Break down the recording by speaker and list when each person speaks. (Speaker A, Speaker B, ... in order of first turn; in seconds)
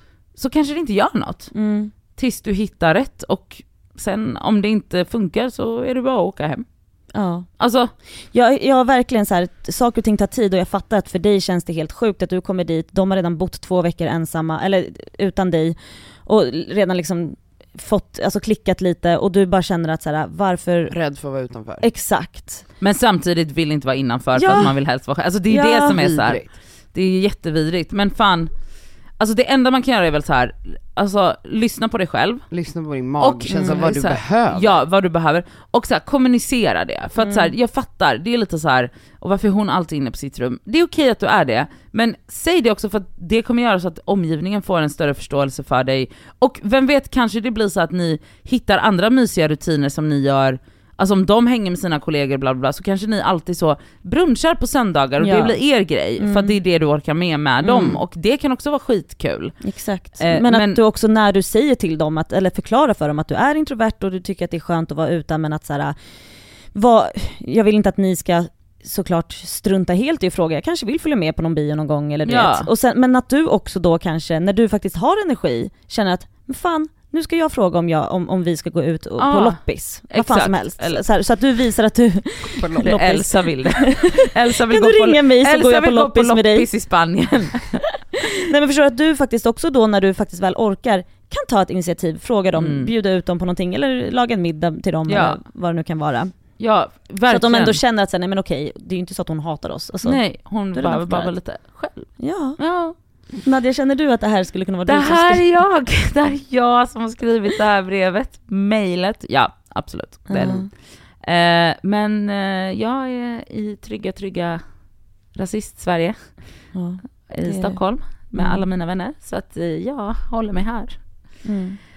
Speaker A: 0.3-1.5, 2.1-6.7, 7.6-7.9, 22.8-28.5, 29.2-32.5, 33.2-60.8, 72.2-72.7, 79.2-81.0, 82.6-88.3, 92.5-92.9, 95.1-95.4, 96.6-97.8, 100.0-103.0, 104.8-121.4
Speaker B: 1.5-1.9, 7.1-7.5, 8.2-20.9, 21.8-22.6, 24.3-24.7, 25.5-26.0, 33.5-33.8, 37.2-37.5, 55.2-55.6, 56.2-56.5, 57.6-58.0, 59.6-66.0, 66.7-86.7, 88.4-96.3, 97.3-101.3, 102.2-102.6, 103.3-105.6, 110.3-110.7, 116.7-117.8, 118.3-118.6, 121.4-121.8
Speaker C: 20.9-21.9, 25.9-26.5, 32.5-34.8